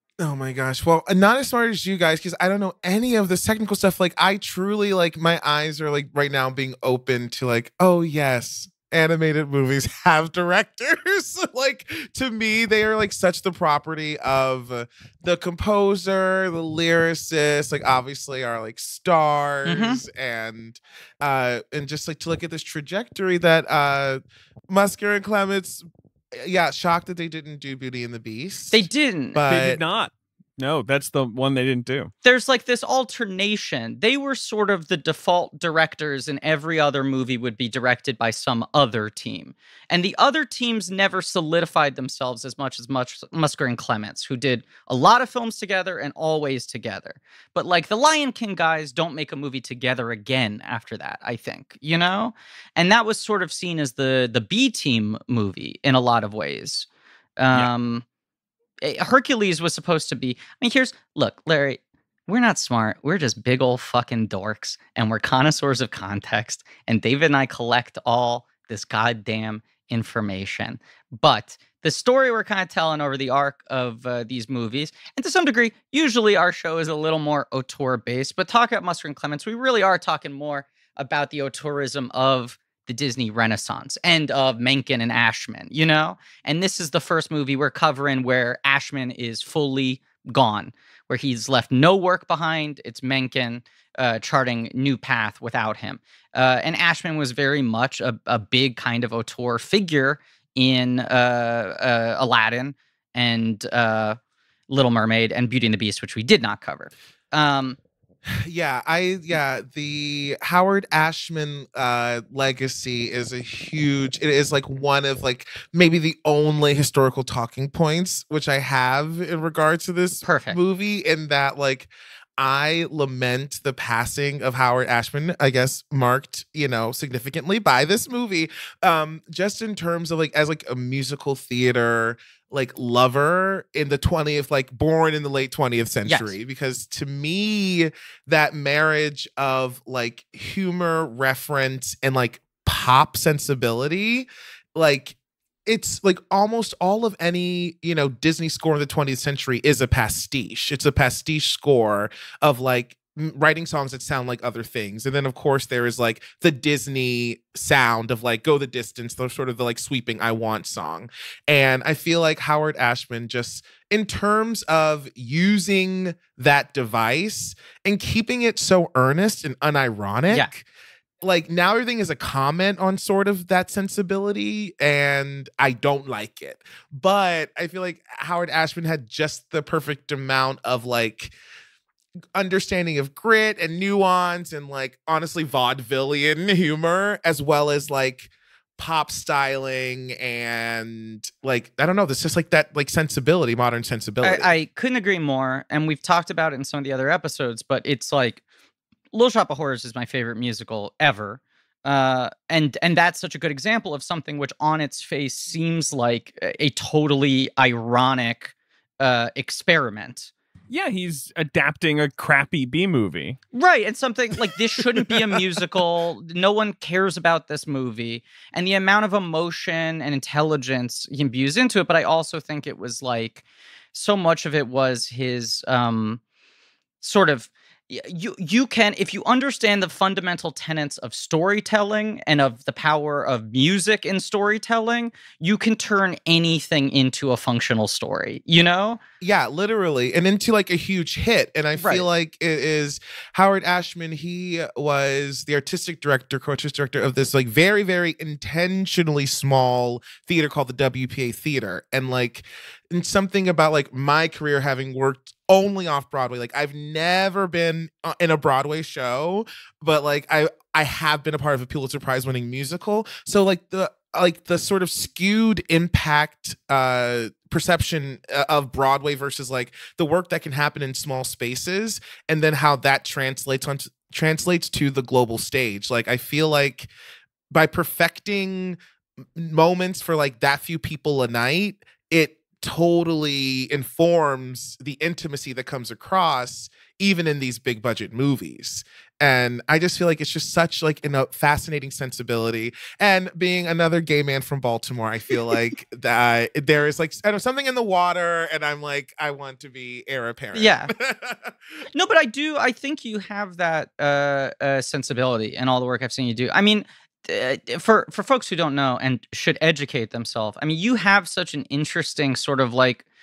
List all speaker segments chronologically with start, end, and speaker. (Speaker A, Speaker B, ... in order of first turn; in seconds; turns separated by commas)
Speaker A: 0.2-29.8, Speaker B: 19.6-20.0, Speaker B: 28.7-29.4, Speaker C: 29.5-32.1, Speaker B: 32.2-56.9, Speaker B: 57.4-58.0, Speaker B: 58.8-104.2, Speaker B: 104.7-107.8, Speaker A: 108.3-170.7, Speaker B: 120.2-120.6, Speaker B: 136.1-136.3, Speaker A: 171.2-181.3, Speaker A: 182.3-194.5, Speaker B: 194.2-198.4, Speaker B: 199.1-210.3, Speaker C: 210.7-213.4, Speaker B: 213.5-226.2, Speaker B: 227.0-239.0, Speaker A: 239.2-276.9, Speaker B: 241.8-242.1, Speaker A: 277.5-278.8, Speaker A: 279.3-301.6, Speaker B: 300.5-300.9, Speaker B: 301.9-313.1